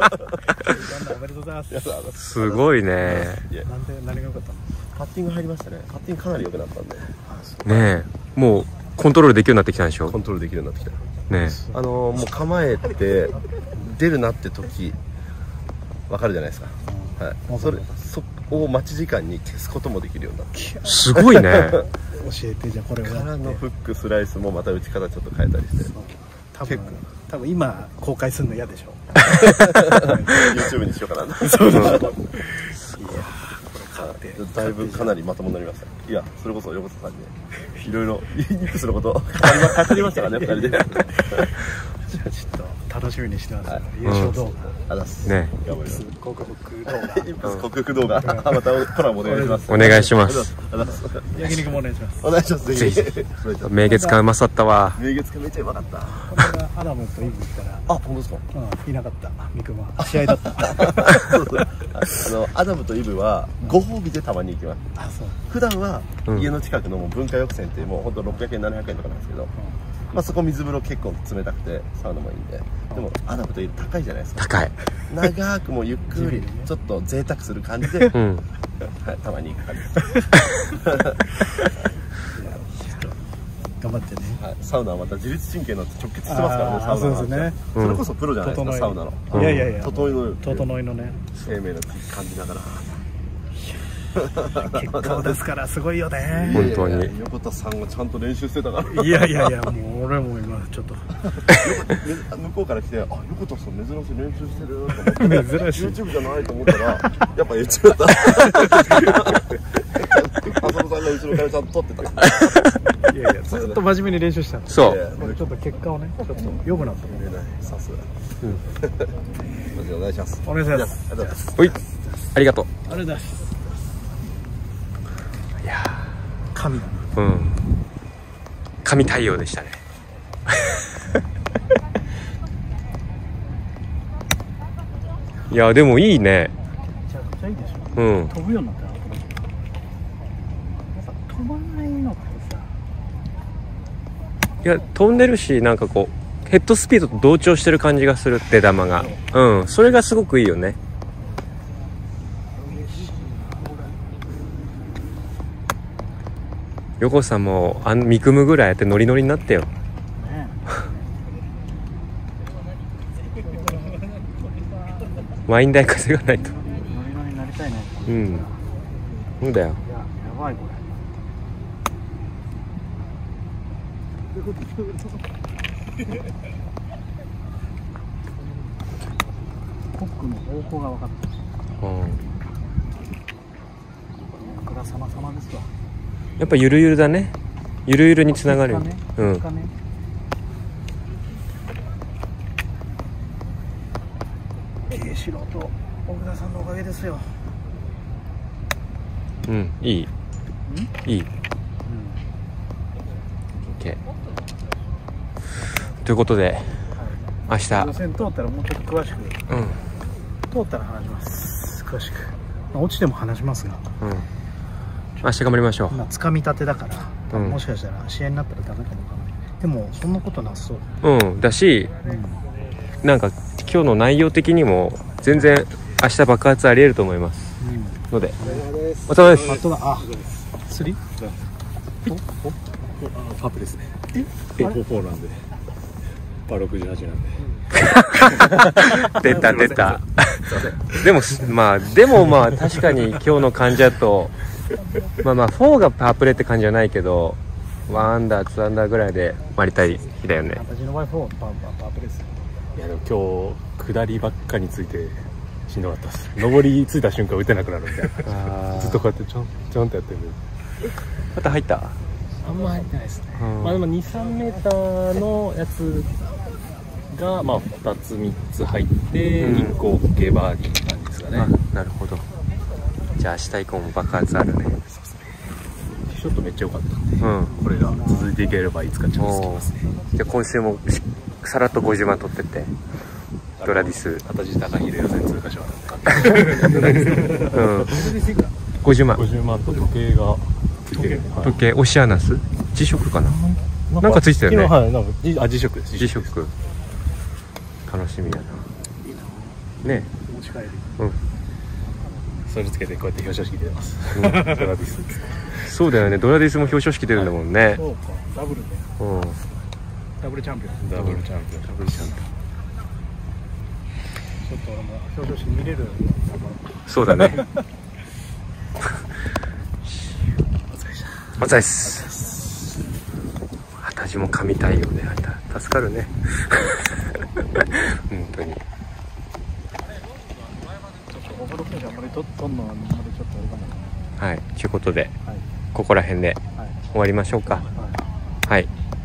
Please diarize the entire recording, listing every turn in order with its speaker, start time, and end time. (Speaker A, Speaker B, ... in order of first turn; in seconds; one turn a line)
Speaker A: 0.6-1.8
Speaker B: 1.7-3.7
Speaker C: 2.2-3.5
Speaker A: 3.6-4.7
Speaker B: 4.9-7.2
Speaker A: 7.3-7.8
Speaker C: 7.6-10.2
Speaker B: 10.1-11.0
Speaker C: 11.3-11.6
Speaker B: 11.7-15.0
Speaker B: 16.1-20.6
Speaker A: 16.9-17.8
Speaker A: 20.6-20.9
Speaker C: 20.8-21.8
Speaker A: 22.1-23.6
Speaker B: 23.0-25.9
Speaker A: 25.9-29.2
Speaker B: 26.7-27.0
Speaker B: 29.6-32.1
Speaker A: 29.8-30.5
Speaker A: 31.4-35.1
Speaker B: 34.1-41.6
Speaker A: 40.5-44.8
Speaker C: 44.0-44.4
Speaker B: 44.7-46.0
Speaker C: 45.2-45.5
Speaker A: 45.8-47.3
Speaker B: 46.9-51.7
Speaker A: 48.3-48.5
Speaker A: 49.2-49.9
Speaker C: 49.7-50.5
Speaker A: 50.9-52.3
Speaker B: 52.2-53.7
Speaker C: 52.7-55.0
Speaker A: 53.9-54.1
Speaker B: 55.0-56.5
Speaker A: 56.2-57.9
Speaker B: 57.9-58.5
Speaker A: 58.5-61.3
Speaker B: 60.7-64.8
Speaker A: 65.0-65.4
Speaker B: 65.5-69.5
Speaker B: 70.1-74.5
Speaker C: 74.4-74.7
Speaker B: 75.1-78.2
Speaker C: 78.1-78.5
Speaker B: 78.8-80.1
Speaker A: 82.3-83.2
Speaker A: 83.8-84.4
Speaker B: 84.4-90.7
Speaker A: 86.3-87.6
Speaker C: 87.7-88.0
Speaker A: 88.4-91.2
Speaker C: 89.3-89.7
Speaker B: 91.4-93.0
Speaker B: 94.4-95.3
Speaker A: 94.5-96.7
Speaker B: 96.3-99.6
Speaker C: 96.5-97.1
Speaker A: 98.9-101.4
Speaker B: 101.5-112.6
Speaker A: 105.1-105.9
Speaker A: 113.0-117.3
Speaker B: 113.5-113.8
Speaker C: 114.7-115.0
Speaker B: 114.8-115.4
Speaker B: 116.5-118.3
Speaker B: 118.8-119.1
Speaker B: 119.7-121.4
Speaker A: 120.5-121.8
Speaker C: 122.3-122.7
Speaker A: 122.8-123.7
Speaker C: 125.6-126.2
Speaker A: 126.5-127.1
Speaker C: 127.1-127.6
Speaker C: 128.8-129.8
Speaker C: 135.5-136.5
Speaker A: 137.1-139.4
Speaker C: 137.9-138.3
Speaker A: 140.9-142.8
Speaker C: 144.6-150.8
Speaker A: 152.6-154.0
Speaker C: 157.0-159.7
Speaker A: 160.2-160.8
Speaker C: 165.4-166.6
Speaker A: 166.5-168.6
Speaker C: 168.1-168.5
Speaker C: 169.4-169.8
Speaker A: 169.9-170.9
Speaker A: 179.9-181.3
Speaker C: 181.8-182.2
Speaker A: 184.3-185.7
Speaker C: 186.4-187.3
Speaker C: 187.8-189.5
Speaker A: 188.3-189.7
Speaker A: 194.9-197.4
Speaker C: 199.5-200.1
Speaker C: 201.0-201.3
Speaker A: 201.9-202.2
Speaker C: 203.7-204.0
Speaker C: 206.0-208.0
Speaker A: 207.0-209.4
Speaker C: 209.5-209.8
Speaker A: 210.5-213.8
Speaker C: 214.0-214.3
Speaker C: 215.2-216.0
Speaker A: 215.9-220.8
Speaker C: 217.3-217.6
Speaker C: 221.0-221.9
Speaker A: 222.1-222.4
Speaker C: 223.0-227.6
Speaker A: 227.6-228.7
Speaker C: 228.1-228.4
Speaker C: 229.1-229.5
Speaker A: 229.5-230.1
Speaker D: 232.9-234.0
Speaker D: 234.6-235.5
Speaker D: 236.5-237.5
Speaker C: 237.8-244.4
Speaker D: 238.2-241.0
Speaker C: 245.2-250.6
Speaker A: 250.6-252.4
Speaker D: 252.8-260.4
Speaker C: 258.2-259.1
Speaker C: 261.3-262.0
Speaker D: 262.4-266.1
Speaker C: 263.3-263.8
Speaker D: 267.1-271.5
Speaker C: 269.4-269.8
Speaker C: 271.3-272.2
Speaker C: 273.2-274.8
Speaker D: 275.9-279.9
Speaker C: 277.2-277.6
Speaker C: 279.2-282.7
Speaker D: 283.6-288.3
Speaker C: 283.6-284.2
Speaker C: 287.5-288.1
Speaker C: 288.8-289.2
Speaker D: 289.1-291.5
Speaker C: 291.4-293.4
Speaker D: 293.3-296.3
Speaker C: 294.0-294.7
Speaker C: 296.0-296.5
Speaker C: 297.9-298.7
Speaker C: 299.8-300.1
Speaker A: 300.3-300.9
Speaker D: 302.4-305.6
Speaker C: 304.1-304.5
Speaker C: 305.6-307.9
Speaker A: 307.9-308.9
Speaker C: 309.0-309.4
Speaker A: 310.2-310.8
Speaker D: 310.8-312.3
Speaker C: 311.0-311.2
Speaker A: 314.4-316.7
Speaker C: 316.9-317.4
Speaker C: 321.4-322.1
Speaker C: 323.8-327.0
Speaker C: 327.6-328.6
Speaker A: 331.1-333.9
Speaker C: 334.2-335.1
Speaker C: 335.7-336.4
Speaker C: 336.9-337.7
Speaker A: 337.8-338.0